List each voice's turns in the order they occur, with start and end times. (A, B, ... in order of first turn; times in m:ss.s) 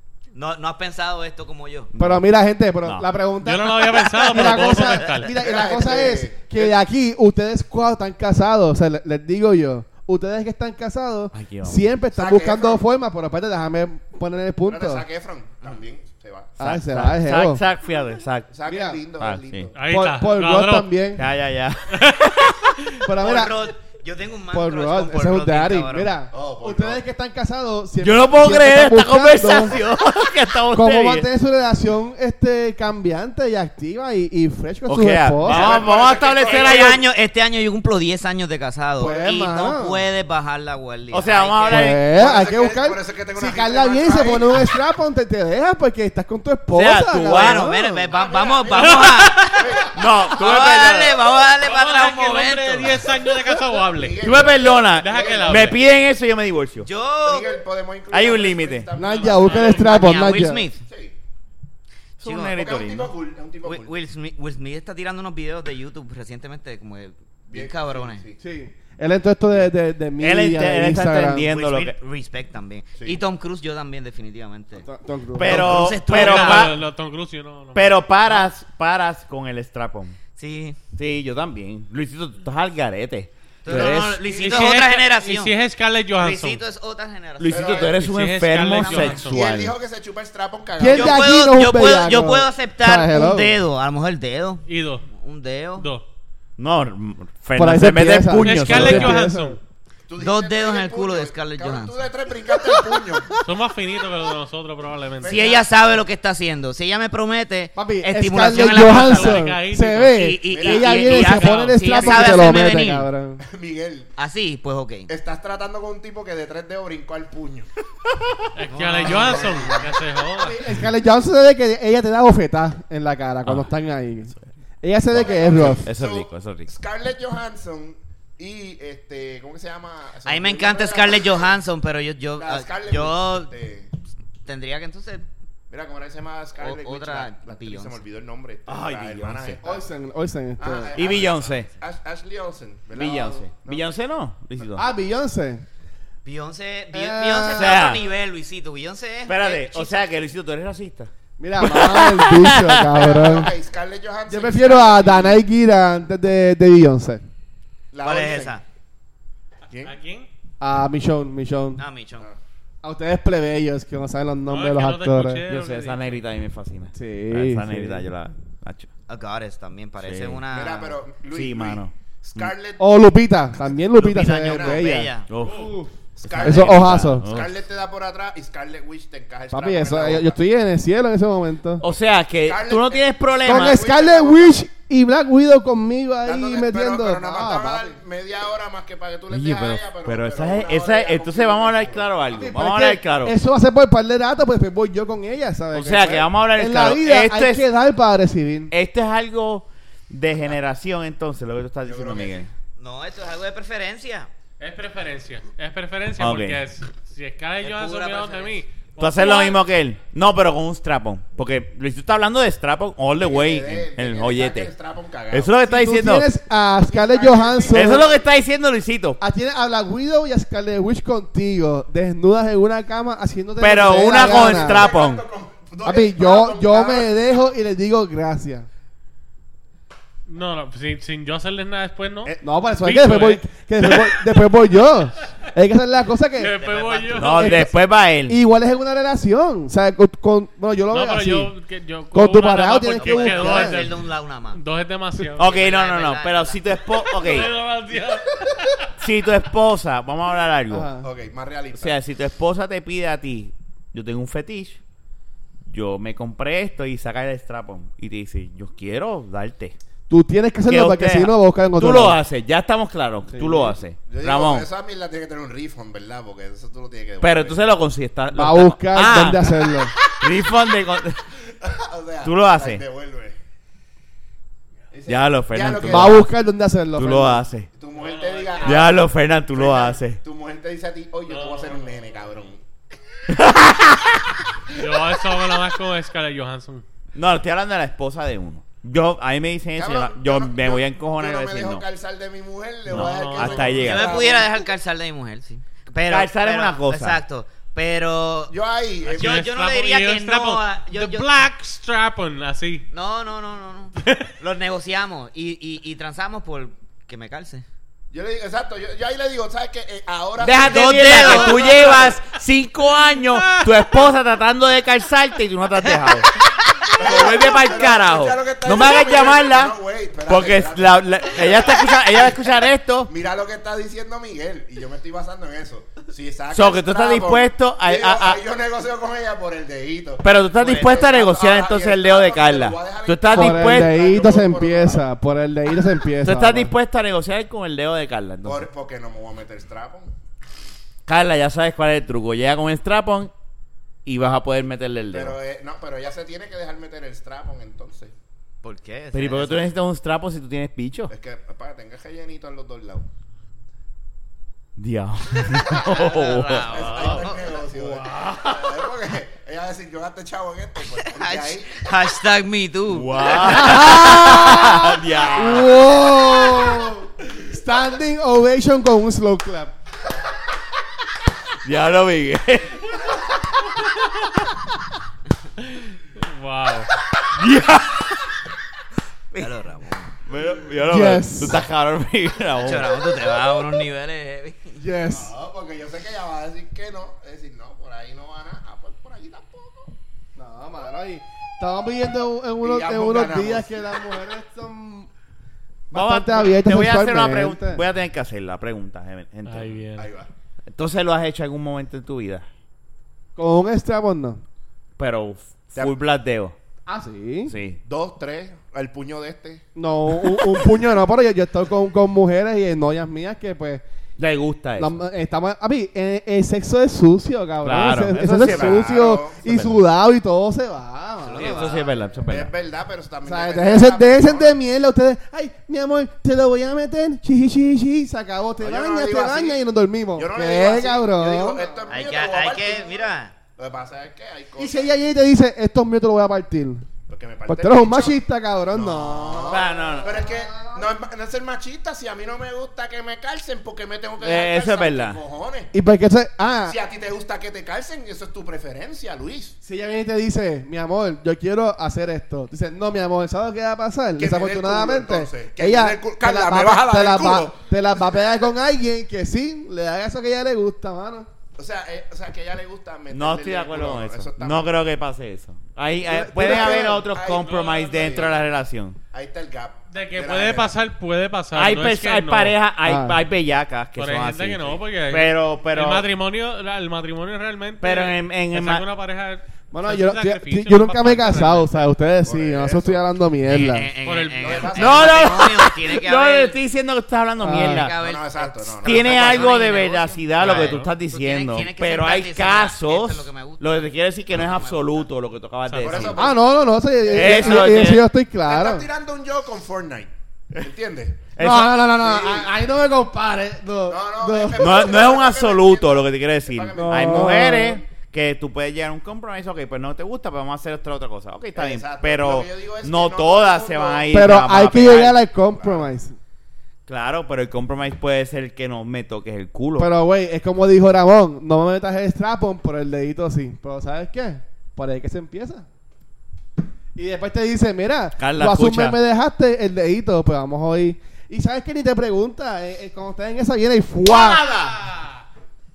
0:00.3-0:01.9 A
0:02.0-0:15.1 B
0:02.0-0:02.2 C
0:03.4-0:05.3 D
0:04.4-0:05.1 A
0:05.3-0:06.8 E
0:11.3-0:11.8 C
0:12.1-0:12.8 E
0:14.6-0:16.6 E
0:16.6-0:17.6 B
0:16.6-0:18.5 C
0:18.5-0:19.8 E
0:18.7-0:19.0 B
0:19.2-0:19.7 C
0:19.8-0:20.9 D
0:19.8-0:21.2 B
0:21.2-0:22.6 C
0:21.9-0:22.9 D
0:23.0-0:23.6 B
0:23.2-0:26.1 A
0:24.5-0:29.8 B
0:26.3-0:27.0 E
0:28.0-0:31.3 C
0:30.7-0:35.8 B
0:34.9-0:37.0 C
0:35.5-0:36.9 E
0:35.7-0:41.9 A
0:39.0-0:40.0 B
0:41.1-0:42.1 C
0:41.7-0:48.1 B
0:42.1-0:44.7 E
0:46.7-0:47.7 C
0:47.3-0:49.6 A
0:48.1-0:50.0 E
0:49.9-0:51.2 C
0:50.3-0:53.1 A
0:51.5-0:55.8 D
0:53.8-0:55.8 E
0:54.2-0:56.9 C
0:56.8-0:57.6 A
0:57.2-0:59.7 E
0:58.1-0:58.9 C
0:58.9-1:00.7 B
0:59.2-0:59.9 D
0:59.4-1:00.8 A
1:00.8-1:01.2 E
1:02.2-1:03.1 C
1:02.2-1:02.6 A
1:02.5-1:03.9 E
1:03.6-1:08.2 A
1:07.5-1:08.4 E
1:08.4-1:11.5 B
1:10.2-1:12.0 C
1:11.3-1:14.9 A
1:14.8-1:15.8 B
1:15.4-1:16.8 C
1:15.4-1:16.8 A
1:16.0-1:18.0 D
1:17.8-1:20.2 C
1:20.4-1:20.8 A
1:21.0-1:24.2 C
1:23.6-1:25.6 A
1:23.7-1:26.6 D
1:24.3-1:24.7 E
1:26.2-1:28.0 A
1:27.4-1:29.8 C
1:27.5-1:28.0 E
1:27.9-1:29.4 D
1:28.7-1:29.2 A
1:29.2-1:31.3 E
1:30.8-1:33.6 B
1:30.9-1:35.9 A
1:34.7-1:35.1 D
1:35.8-1:36.0 D
1:36.6-1:39.2 C
1:37.6-1:39.6 B
1:38.4-1:39.6 D
1:40.1-1:43.3 E
1:40.2-1:42.0 A
1:42.7-1:43.4 B
1:43.4-1:45.4 D
1:45.2-1:45.7 E
1:45.2-1:49.4 A
1:47.8-1:53.4 B
1:48.8-1:50.2 D
1:50.1-1:53.1 A
1:50.5-1:51.4 E
1:51.3-1:51.8 D
1:52.0-1:52.5 E
1:53.4-1:54.1 E
1:54.2-1:55.1 A
1:55.1-1:57.7 E
1:58.6-2:00.6 D
1:58.8-1:59.8 A
1:59.0-1:59.8 B
2:00.4-2:05.9 B
2:03.4-2:03.7 C
2:05.1-2:11.5 E
2:05.2-2:06.7 C
2:10.2-2:13.5 A
2:12.4-2:13.9 E
2:14.4-2:15.2 A
2:15.7-2:19.8 E
2:16.6-2:18.0 A
2:18.7-2:19.6 C
2:19.6-2:21.0 B
2:20.6-2:23.9 E
2:21.0-2:21.7 C
2:22.9-2:24.9 C
2:24.8-2:25.6 B
2:26.2-2:30.0 A
2:26.9-2:27.8 B
2:27.6-2:28.0 C
2:29.3-2:33.2 C
2:31.4-2:33.5 B
2:33.0-2:35.4 E
2:34.3-2:37.2 B
2:37.9-2:38.5 E
2:38.0-2:38.6 A
2:39.8-2:40.3 D
2:40.6-2:41.8 B
2:41.8-2:42.3 A
2:42.8-2:45.4 B
2:44.5-2:46.2 D
2:45.5-2:48.9 C
2:46.9-2:48.0 B
2:49.1-2:51.0 A
2:50.0-2:50.4 C
2:50.5-2:53.0 E
2:51.3-2:52.5 C
2:52.8-2:57.3 B
2:53.5-2:54.9 E
2:54.0-2:55.3 A
2:55.3-2:55.7 C
2:55.4-2:55.7 D
2:56.2-3:00.4 E
2:56.2-2:57.5 C
2:59.5-3:01.8 B
3:01.8-3:03.8 C
3:02.4-3:04.6 E
3:03.4-3:08.0 B
3:06.2-3:12.2 E
3:09.3-3:13.4 C
3:12.3-3:18.7 B
3:15.7-3:17.6 C
3:18.7-3:22.5 C
3:21.8-3:22.5 E
3:22.8-3:24.3 A
3:24.6-3:29.6 D
3:26.2-3:26.6 C
3:27.6-3:28.6 A
3:29.0-3:34.7 C
3:33.2-3:35.6 E
3:35.3-3:36.3 C
3:35.7-3:38.1 B
3:36.9-3:38.2 E
3:37.7-3:39.2 C
3:39.2-3:44.9 B
3:43.6-3:45.2 C
3:44.1-3:47.1 E
3:45.8-3:48.7 B
3:50.3-3:54.3 D
3:52.4-3:56.6 B
3:56.4-3:57.6 D
3:56.4-3:57.6 A
3:57.2-3:58.4 C
3:57.2-3:57.7 B
3:58.3-4:01.5 B
4:00.9-4:05.5 D
4:02.1-4:03.8 B
4:03.0-4:04.6 A
4:05.4-4:07.5 C
4:05.4-4:06.6 A
4:07.0-4:08.9 D
4:09.0-4:10.9 C
4:10.7-4:11.1 B
4:11.0-4:12.0 E
4:11.7-4:14.8 C
4:15.7-4:19.8 C
4:20.1-4:22.2 B
4:20.7-4:24.7 C
4:23.3-4:23.7 B
4:24.1-4:27.6 E
4:27.2-4:31.2 C
4:28.3-4:30.0 B
4:31.6-4:33.4 E
4:32.2-4:32.8 C
4:34.9-4:36.3 E
4:35.1-4:36.2 C
4:35.8-4:37.4 B
4:37.0-4:37.7 C
4:37.7-4:38.9 E
4:37.9-4:39.0 D
4:38.6-4:40.2 C
4:39.5-4:42.6 E
4:41.3-4:42.1 D
4:43.3-4:44.4 C
4:44.7-4:46.8 D
4:47.2-4:51.8 C
4:49.8-4:54.7 E
4:52.9-4:54.2 D
4:52.9-4:54.4 C
4:53.8-4:58.5 A
4:56.1-4:57.2 C
4:58.5-4:59.4 E
4:59.1-5:02.9 D
4:59.1-5:01.3 A
5:02.9-5:07.6 A
5:04.0-5:04.3 D
5:08.1-5:12.2 E
5:10.4-5:16.3 C
5:10.5-5:12.2 A
5:13.2-5:13.7 D
5:16.9-5:19.8 C
5:16.9-5:22.4 E
5:20.3-5:23.1 C
5:23.1-5:35.0 E
5:26.5-5:28.4 C
5:30.2-5:34.0 C
5:33.3-5:36.7 B
5:36.2-5:38.7 C
5:38.4-5:40.1 E
5:41.1-5:43.3 C
5:44.0-5:45.4 C
5:45.1-5:48.1 E
5:48.6-5:49.7 A
5:49.1-5:51.1 C
5:51.1-5:53.1 E
5:54.8-5:57.3 C
5:55.7-5:57.4 A
5:56.7-6:01.9 E
5:57.9-5:58.8 C
6:01.0-6:03.8 A
6:02.9-6:05.8 C
6:03.4-6:09.7 B
6:11.6-6:13.1 C
6:15.6-6:16.9 D
6:17.2-6:18.3 C
6:19.4-6:20.2 A
6:20.3-6:23.0 C
6:20.8-6:21.6 B
6:22.6-6:24.8 A
6:24.8-6:25.3 B
6:25.1-6:29.9 E
6:30.4-6:35.1 B
6:32.6-6:34.0 E
6:35.9-6:37.8 B
6:35.9-6:39.8 C
6:39.5-6:40.1 D
6:40.0-6:40.3 E
6:40.7-6:42.5 C
6:43.4-6:44.4 B
6:45.0-6:46.6 C
6:45.8-6:46.0 E
6:46.9-6:47.6 B
6:47.5-6:47.8 C
6:47.8-6:49.7 E
6:49.8-6:53.8 B
6:54.2-6:54.9 C
6:54.8-7:01.8 B
6:57.6-6:58.9 C
6:58.4-6:59.7 E
7:01.3-7:02.5 C
7:01.3-7:01.7 A
7:01.3-7:01.7 E
7:02.3-7:04.6 E
7:03.2-7:11.8 B
7:08.6-7:09.6 E
7:10.2-7:14.9 E
7:11.9-7:13.3 A
7:14.6-7:16.9 B
7:17.1-7:18.2 E
7:17.5-7:20.8 B
7:18.7-7:25.7 E
7:19.5-7:20.2 C
7:24.2-7:25.2 C
7:25.7-7:26.8 B
7:26.6-7:29.6 E
7:29.6-7:41.3 B
7:34.2-7:37.6 E
7:41.6-7:44.8 E
7:43.1-7:49.0 C
7:46.1-7:46.9 B
7:46.4-7:48.4 E
7:47.2-7:48.3 D
7:49.1-7:50.8 E
7:49.9-7:52.6 D
7:51.5-7:56.1 C
7:52.8-7:53.2 B
7:54.0-8:01.7 D
7:57.8-7:58.8 C
7:59.7-8:03.9 B
8:02.2-8:03.0 E
8:03.4-8:06.6 A
8:04.0-8:05.0 D
8:04.4-8:05.3 E
8:04.7-8:07.9 C
8:07.4-8:07.9 B
8:07.6-8:15.0 A
8:07.9-8:09.6 E
8:08.8-8:16.3 C
8:10.4-8:10.9 D
8:15.7-8:16.1 D
8:15.8-8:17.8 E
8:16.2-8:18.9 B
8:17.1-8:18.1 C
8:18.4-8:21.3 E
8:21.4-8:21.8 C
8:21.4-8:25.2 B
8:22.0-8:22.5 E
8:23.9-8:27.4 E
8:24.6-8:35.2 C
8:26.8-8:27.8 B
8:31.6-8:34.2 E
8:34.1-8:36.2 B
8:34.9-8:35.9 E
8:36.9-8:39.9 C
8:39.8-8:45.7 B
8:47.0-8:54.5 B
8:48.2-8:49.0 C
8:54.0-8:54.8 C